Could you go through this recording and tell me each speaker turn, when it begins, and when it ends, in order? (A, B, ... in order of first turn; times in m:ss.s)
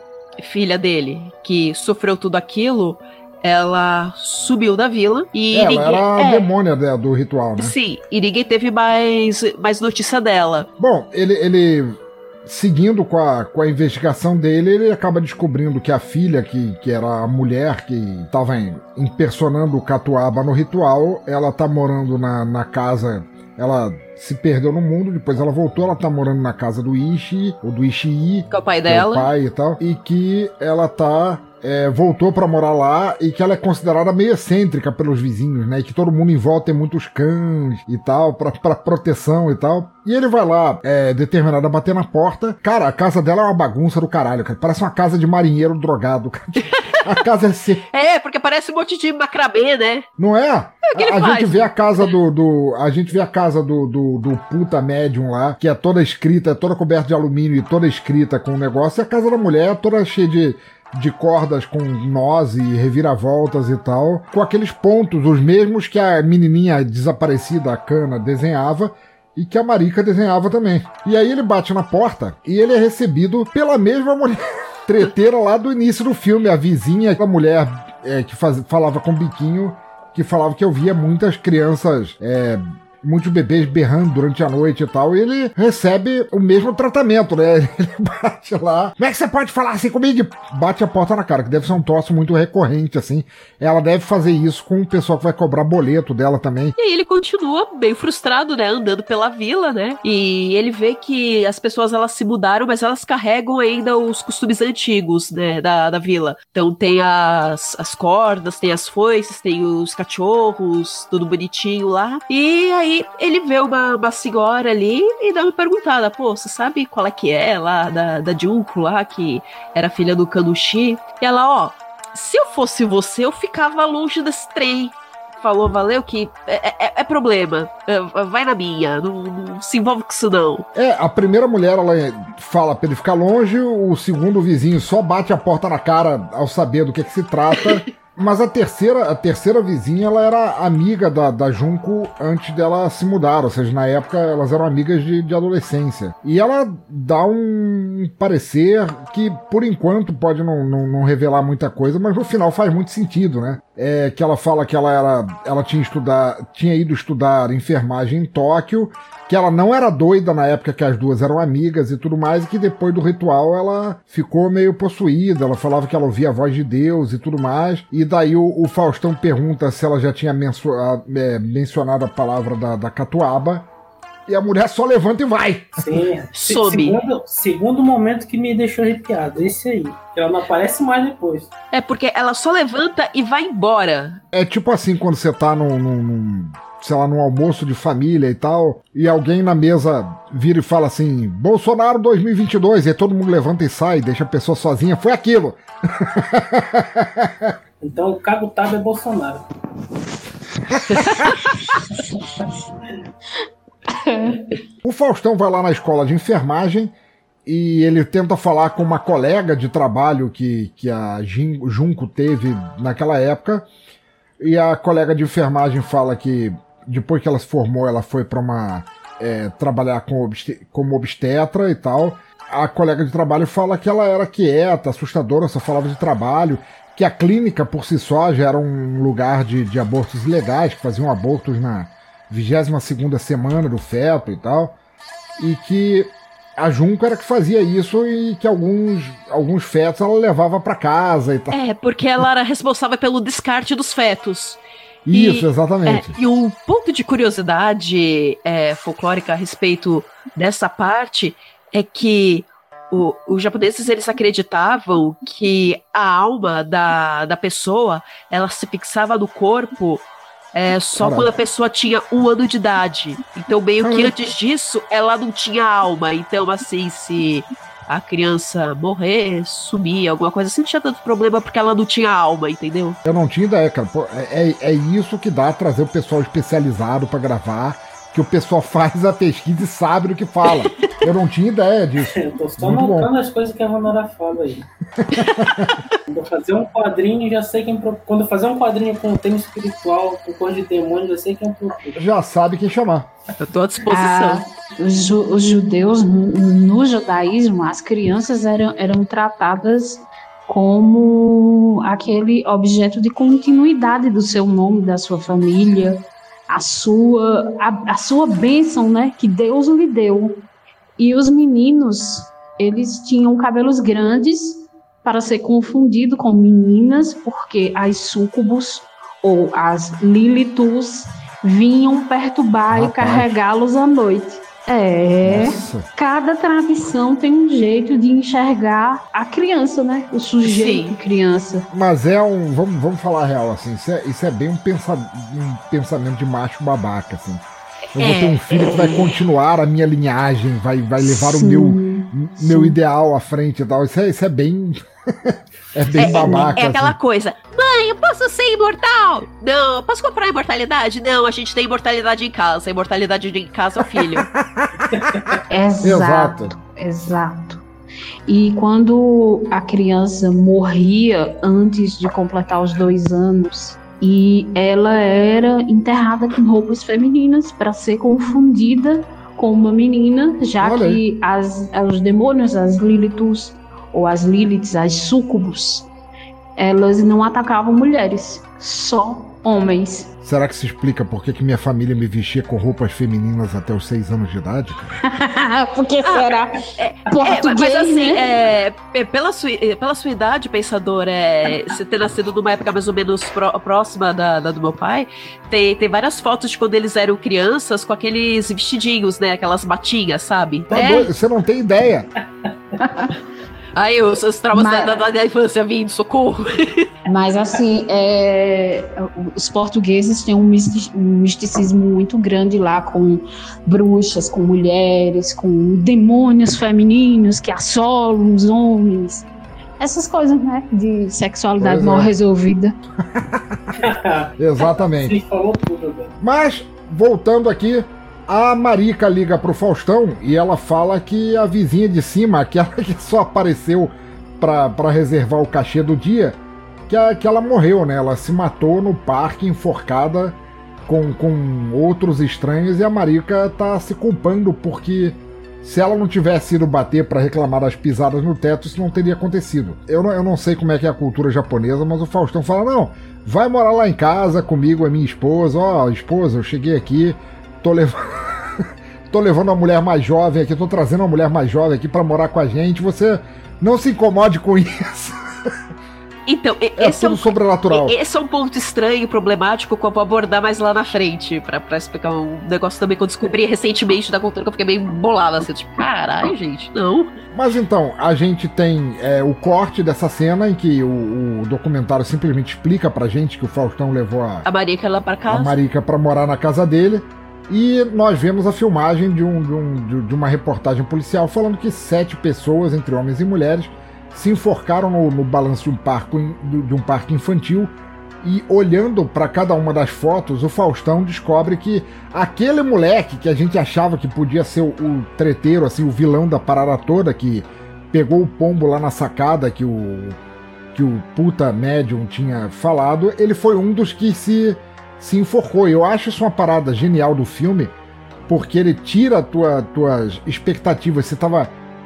0:00.4-0:06.5 A
0:05.5-0:07.7 B
0:07.6-0:10.7 A
0:10.8-0:47.8 B
0:28.5-0:29.3 A
0:46.6-0:47.1 A
0:47.9-0:50.1 A
0:50.2-1:36.8 B
0:50.9-0:52.1 A
1:36.8-2:10.7 A
2:10.8-2:53.7 B
2:54.3-2:55.8 B
2:55.8-3:01.5 C
2:56.3-2:57.0 A
3:01.7-3:04.2 A
3:04.3-3:17.5 B
3:17.8-3:19.4 C
3:23.9-3:24.5 D
3:24.8-3:26.9 B
3:27.5-3:33.7 B
3:34.4-3:54.8 B
3:55.4-4:01.6 B
4:01.5-4:04.6 A
4:05.1-4:06.2 B
4:05.1-4:33.0 A
4:21.0-4:21.3 B
4:23.8-4:24.2 B
4:33.0-4:43.1 B
4:42.2-4:44.7 C
4:45.1-4:45.7 B
4:45.1-4:45.4 A
4:46.1-4:52.0 C
4:52.0-4:53.1 B
4:53.4-4:54.4 A
4:53.9-5:10.4 D
5:11.0-5:31.7 D
5:22.7-5:23.4 B
5:25.2-5:25.9 B
5:30.4-5:31.0 A
5:31.7-5:37.4 B
5:38.0-5:47.0 B
5:38.0-5:38.4 A
5:38.0-5:39.0 D
5:41.0-5:42.8 D
5:46.0-5:54.3 A
5:46.0-5:46.6 D
5:53.9-5:54.7 B
5:54.9-5:55.4 C
5:55.5-5:57.6 D
5:55.8-5:56.5 B
5:58.3-6:15.9 D
6:10.6-6:11.0 B
6:16.6-6:20.1 D
6:20.2-6:24.9 B
6:25.1-6:28.3 D
6:26.0-6:41.1 A
6:40.7-6:42.1 B
6:43.8-6:46.9 A
6:44.5-6:45.0 D
6:47.1-6:59.3 D
6:59.8-7:02.8 D
7:01.6-7:02.1 B
7:03.1-7:03.8 B
7:03.8-7:06.1 C
7:04.4-7:05.2 B
7:06.2-7:45.5 B
7:46.3-7:57.1 A
7:46.8-7:48.0 B
7:57.3-8:04.5 B
8:04.5-8:05.6 A
8:05.3-8:17.7 B
8:18.2-8:30.2 B
8:30.7-8:37.7 B
8:38.3-8:41.5 B